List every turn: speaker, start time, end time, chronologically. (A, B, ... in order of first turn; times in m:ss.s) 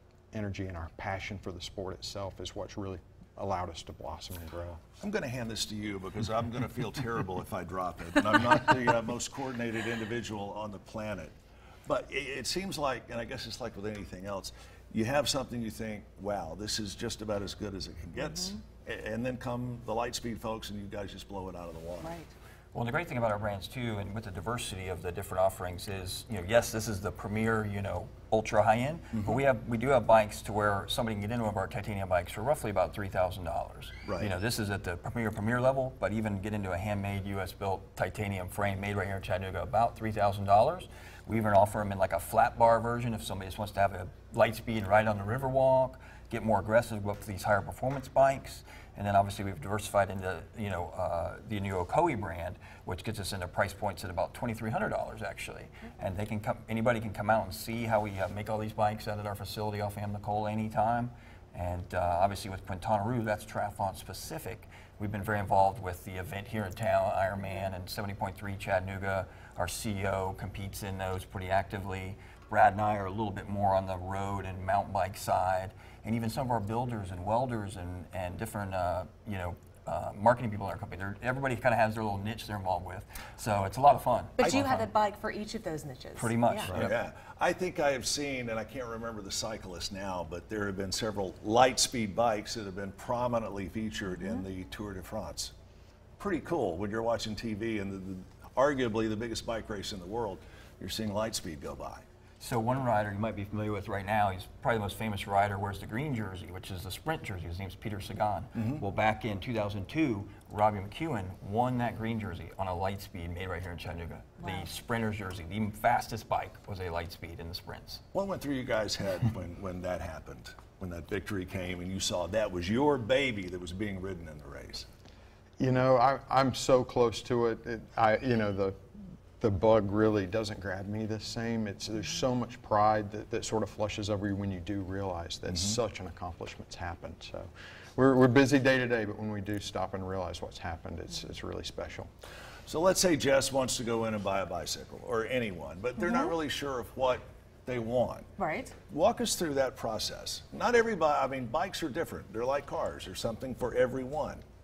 0:00.3-0:04.8 A
0:05.0-0:11.3 B
0:11.9-0:22.2 B
0:22.0-0:22.3 C
0:22.7-1:24.7 D
0:29.1-0:29.4 B
0:34.0-0:34.3 B
1:24.4-1:26.8 C
1:26.2-1:27.0 D
1:26.7-1:35.5 B
1:36.2-1:42.0 B
1:42.4-1:58.0 D
1:48.6-1:48.8 B
1:58.1-2:04.9 B
2:05.6-2:08.8 A
2:09.4-2:22.1 A
2:15.5-2:15.8 B
2:22.7-2:28.3 B
2:26.0-2:26.3 C
2:28.4-2:28.8 C
2:28.9-2:34.4 B